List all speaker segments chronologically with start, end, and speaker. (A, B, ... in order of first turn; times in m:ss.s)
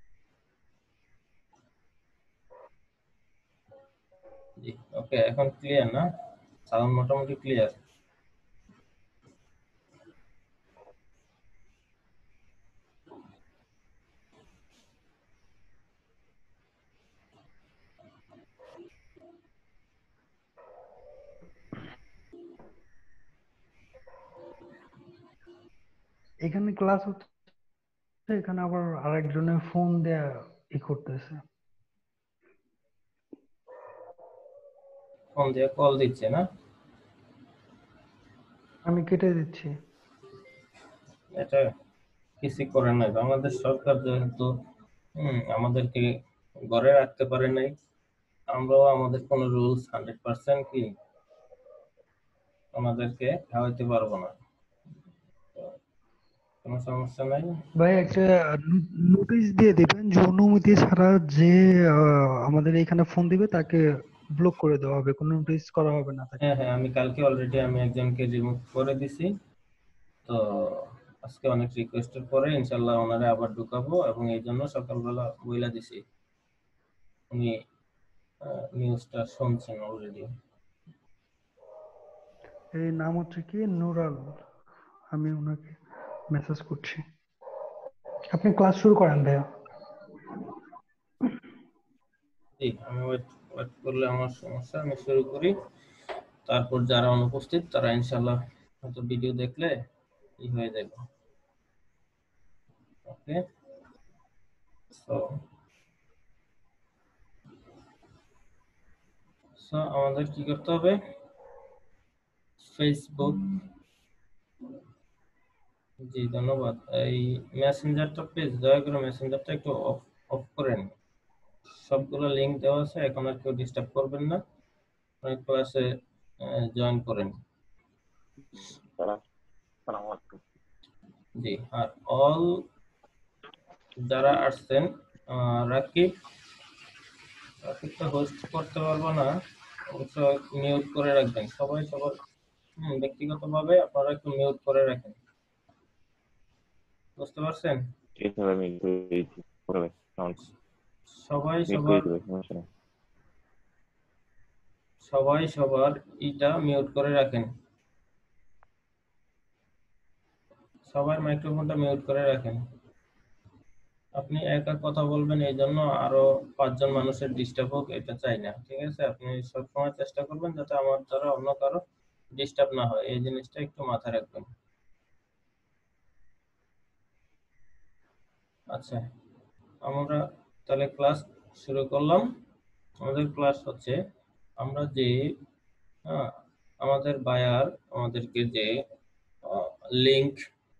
0:04.6-0:06.0 A
0:06.7-0:07.7 A
0:26.4-0:27.3 B
0:28.3-0:31.4 B
0:35.4-0:36.4 A
0:38.9-0:39.7 B
0:41.4-0:41.6 A
0:42.4-0:44.5 A
0:45.2-0:46.1 A
0:46.7-0:47.7 A
0:48.5-0:50.9 A
0:52.7-0:54.3 A
0:56.6-0:57.5 A
0:57.8-1:03.8 B
1:04.4-1:06.4 B
1:06.4-1:09.3 A
1:10.2-1:16.0 A
1:18.5-1:20.3 A
1:22.7-1:24.4 B
1:25.1-1:25.8 B
1:26.3-1:27.0 B
1:28.3-1:29.4 B
1:32.6-1:35.5 A
1:36.4-1:39.7 A
1:40.4-1:41.0 A
1:43.1-1:43.4 A
1:44.9-1:45.2 A
1:49.6-1:51.0 A
1:52.6-1:53.4 A
1:56.1-2:00.9 A
2:01.8-2:04.4 A
2:05.2-2:05.8 A
2:06.4-2:07.3 A
2:08.5-2:09.2 C
2:09.9-2:10.4 C
2:11.4-2:12.5 A
2:14.1-2:16.1 A
2:17.6-2:19.3 A
2:19.9-2:22.1 A
2:22.8-2:25.2 A
2:27.2-2:27.8 A
2:28.2-2:30.5 C
2:31.2-2:32.1 A
2:31.7-2:32.6 C
2:35.0-2:37.5 A
2:40.9-2:42.6 A
2:44.2-2:51.8 A
2:52.4-2:54.5 A
2:58.7-2:59.0 A
2:59.8-3:02.2 A
3:03.0-3:04.0 A
3:04.6-3:05.2 A
3:06.8-3:08.8 A
3:09.5-3:10.4 A